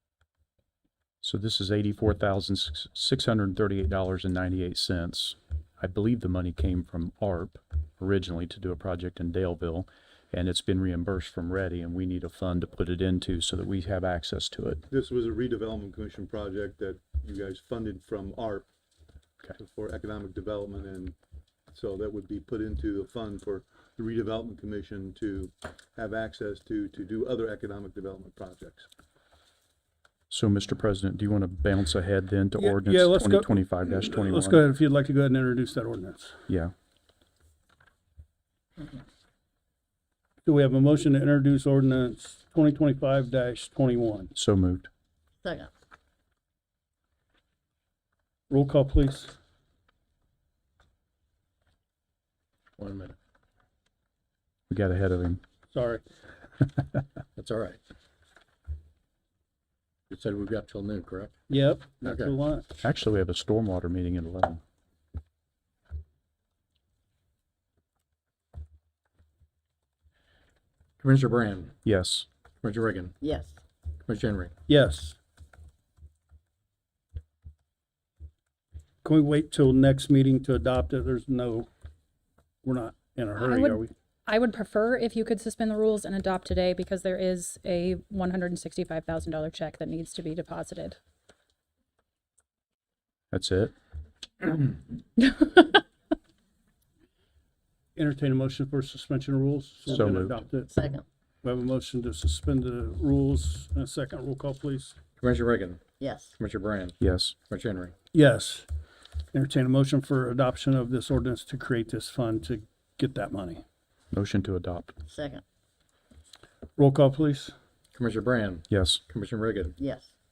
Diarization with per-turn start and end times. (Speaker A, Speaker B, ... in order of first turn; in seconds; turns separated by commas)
Speaker A: 1.2-14.8, Speaker B: 14.9-18.7, Speaker B: 19.6-21.1, Speaker B: 21.7-28.9, Speaker A: 30.3-34.7, Speaker C: 32.5-36.4, Speaker C: 40.5-44.3, Speaker A: 44.3-44.9, Speaker D: 45.4-45.7, Speaker C: 48.5-49.3, Speaker E: 52.8-53.1, Speaker A: 54.7-55.4, Speaker C: 55.7-56.0, Speaker E: 57.4-57.8, Speaker E: 60.1-61.4, Speaker C: 61.5-62.8, Speaker E: 62.0-62.3, Speaker A: 62.8-64.6, Speaker E: 71.0-71.8, Speaker A: 71.8-72.3, Speaker E: 72.6-73.2, Speaker D: 73.2-73.6, Speaker E: 74.0-74.5, Speaker C: 74.7-75.2, Speaker C: 79.0-81.7, Speaker C: 82.6-83.9, Speaker F: 83.4-91.0, Speaker A: 93.3-93.7, Speaker C: 98.0-100.7, Speaker A: 99.9-100.4, Speaker D: 100.7-101.0, Speaker C: 101.4-105.0, Speaker E: 105.2-107.0, Speaker D: 106.0-106.4, Speaker A: 107.0-107.4, Speaker E: 107.5-107.9, Speaker C: 108.1-108.7, Speaker C: 109.3-113.6, Speaker A: 114.1-115.0, Speaker D: 115.1-115.4, Speaker C: 116.8-117.5, Speaker E: 117.9-119.8, Speaker A: 118.7-119.0, Speaker D: 119.8-120.1